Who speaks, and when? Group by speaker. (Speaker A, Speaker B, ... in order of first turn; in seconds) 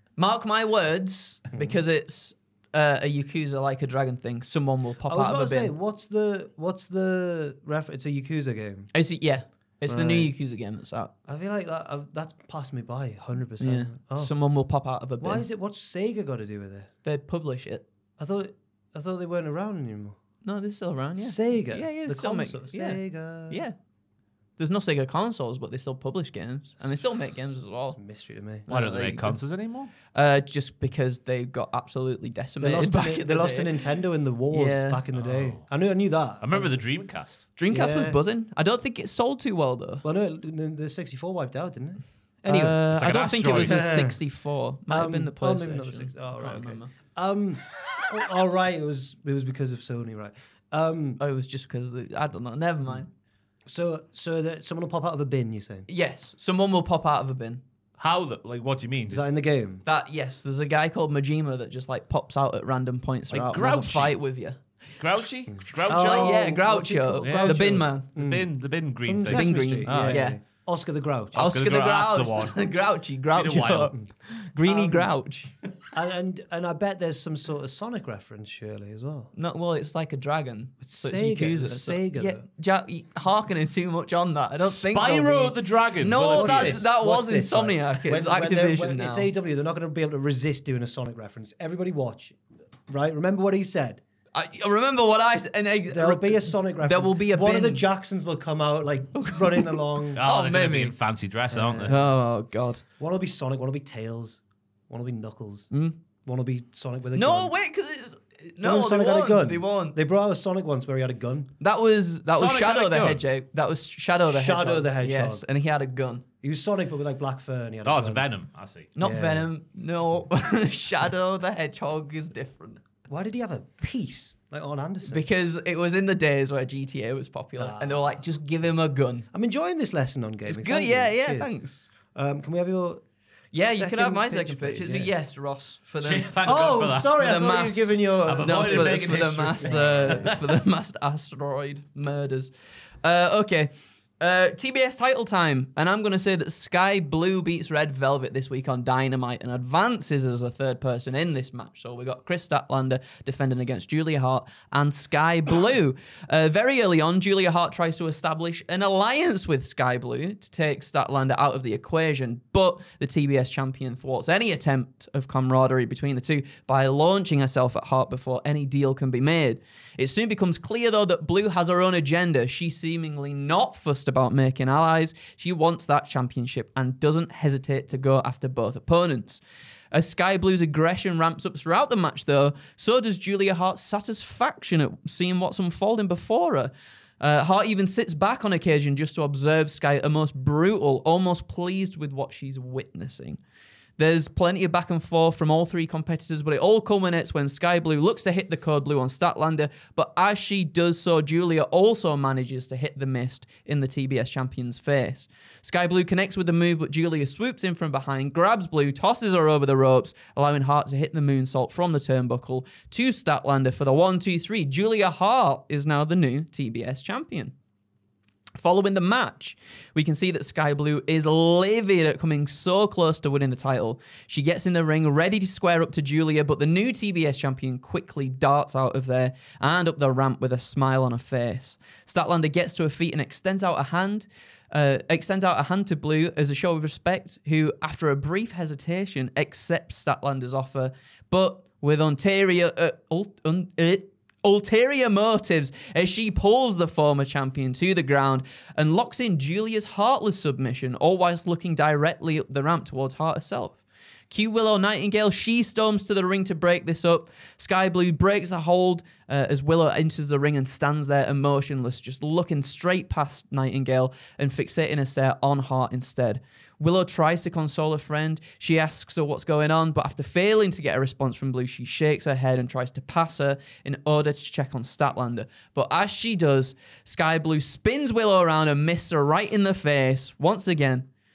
Speaker A: 0.2-5.7, 8.9-11.1, 13.6-15.4, 17.1-17.9, 20.4-23.8, 24.6-28.0, 28.7-29.4, 30.1-33.7, 34.5-35.0, 37.6-40.0, 42.5-46.9, 51.2-53.1, 55.9-57.6, 59.9-64.6, 65.9-68.1, 69.3-70.4, 71.3-75.5, 79.3-89.3, 94.3-97.8, 99.1-101.0, 101.9-102.8, 107.2-110.0, 111.6-116.2, 119.0-122.8, 125.1-129.3, 130.5-131.9, 133.5-136.5, 137.1-142.5, 143.0-179.4, 179.9-193.4, 194.0-217.5, 218.6-253.8, 254.3-281.1
Speaker B: 1.5-1.8, 5.1-8.9, 9.9-10.3, 11.3-14.3, 15.2-16.9, 18.2-20.2, 21.2-23.6, 27.9-28.6, 32.6-36.8, 37.7-38.2, 40.0-42.8, 43.5-44.2, 44.9-51.2, 53.7-55.9, 59.1-59.9, 65.9-68.5, 69.0-71.5, 74.6-75.1, 75.9-79.3, 80.8-82.5, 86.0-94.0, 95.9-100.2, 101.5-102.1, 103.0-105.7, 106.2-107.5, 108.6-111.5, 114.3-115.5, 116.4-118.3, 119.0-119.5, 123.1-125.3, 127.6-128.2, 129.3-131.5, 132.2-133.0, 133.5-135.1, 136.4-140.3
Speaker C: 28.7-29.9, 35.1-35.7, 36.4-37.4, 42.9-43.9, 58.0-59.2, 63.3-64.2, 65.0-66.4, 67.2-70.3, 71.3-72.6, 73.3-73.9, 84.6-86.8, 100.2-102.0, 112.3-113.2, 117.8-118.9, 136.0-137.2, 138.2-140.4